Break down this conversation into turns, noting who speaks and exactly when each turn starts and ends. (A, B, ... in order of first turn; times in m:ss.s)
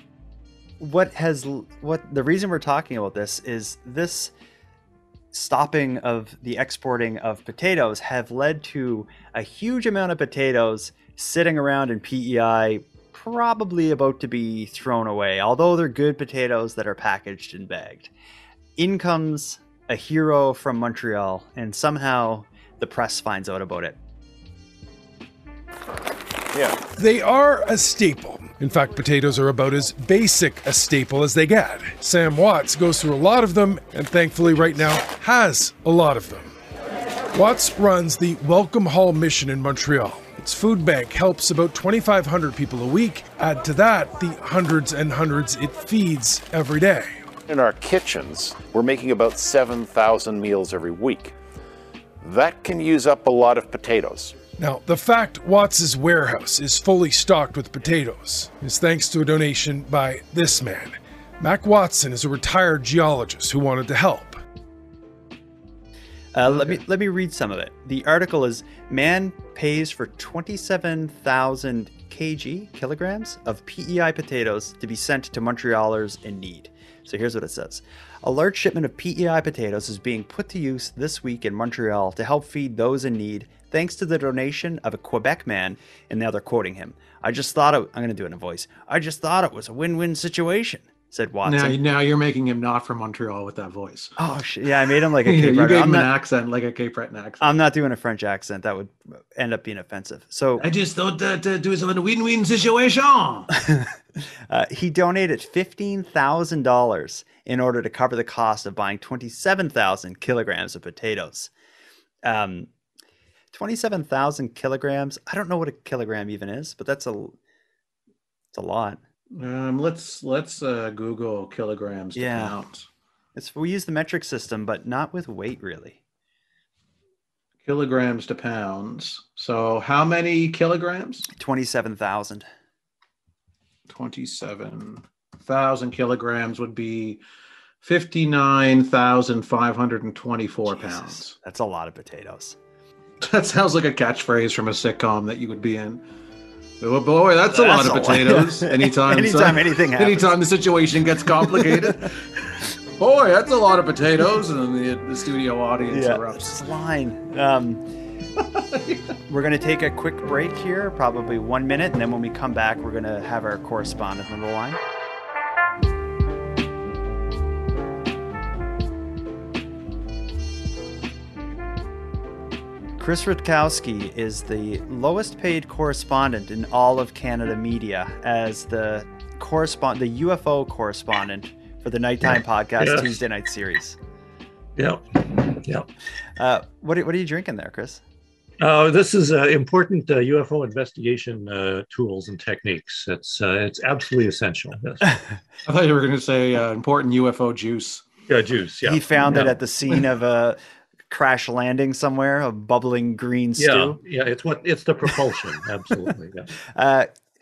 0:00.8-0:04.3 A
0:05.3-0:18.1 A
0:18.8-0:24.0 A
0:26.5-0:26.8 B
0:27.0-0:36.5 C
0:37.3-0:47.3 C
0:47.5-0:51.3 B
0:52.2-0:54.4 B
0:54.6-1:04.4 C
1:06.3-1:31.8 A
1:06.5-1:06.8 D
1:31.4-1:34.2 D
1:34.2-1:36.1 A
1:34.9-1:37.4 D
1:37.4-1:40.6 A
1:40.6-1:43.5 D
1:43.6-1:51.5 A
1:52.2-1:52.7 A
1:53.5-1:57.4 A
1:58.5-1:59.0 A
1:59.3-2:02.8 D
2:02.2-2:02.6 A
2:03.4-2:06.0 A
2:07.6-2:11.2 D
2:11.4-2:12.4 A
2:13.9-2:17.2 D
2:17.8-2:21.3 D
2:20.7-2:22.6 A
2:23.2-2:26.0 D
2:26.8-2:36.6 D
2:27.5-2:30.4 A
2:31.4-2:31.9 A
2:35.9-2:37.8 A
2:38.4-2:39.1 D
2:39.3-2:44.8 A
2:53.0-3:04.0 A
3:02.2-3:03.2 E
3:04.8-3:05.9 E
3:06.4-3:08.0 A
3:08.6-3:15.2 E
3:15.6-3:18.0 D
3:18.3-3:20.0 E
3:18.8-3:20.6 A
3:21.1-3:24.0 A
3:23.6-3:26.5 E
3:26.7-3:27.1 A